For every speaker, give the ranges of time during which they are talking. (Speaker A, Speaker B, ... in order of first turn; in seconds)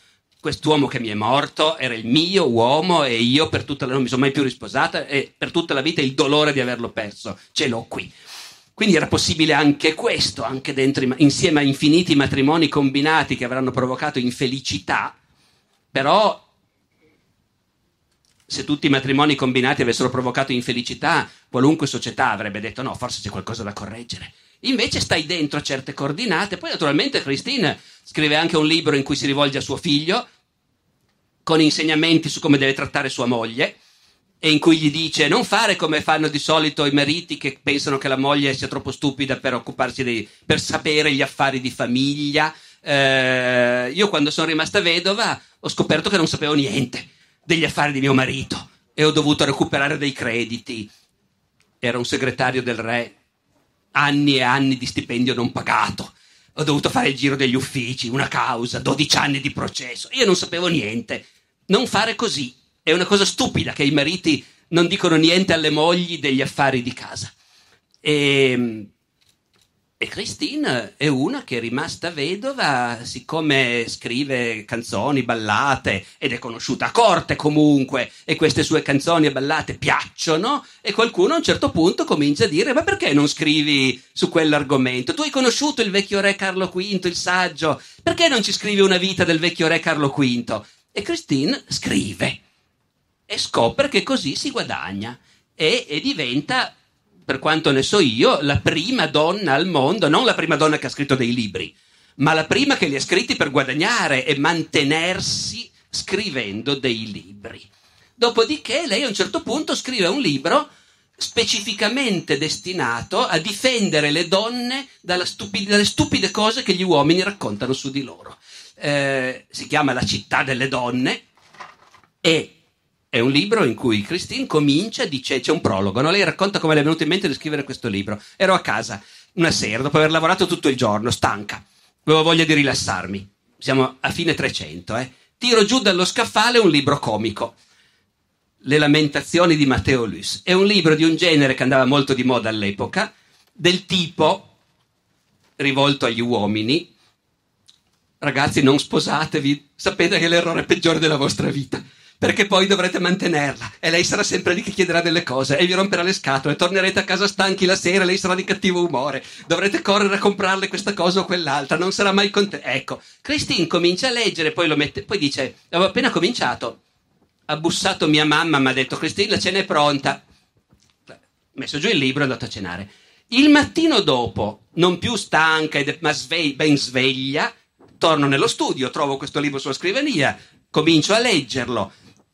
Speaker A: 0.4-8.1, 8.8-15.1, 15.9-16.4, 18.5-30.2, 31.4-33.8, 34.4-50.9, 51.8-53.1, 53.9-67.3, 68.0-68.9, 70.0-92.4, 93.3-96.7, 97.3-107.7, 108.2-121.2, 122.2-122.5, 123.1-137.5, 138.6-144.5, 145.6-146.9, 148.2-166.8, 167.5-170.2, 171.1-181.9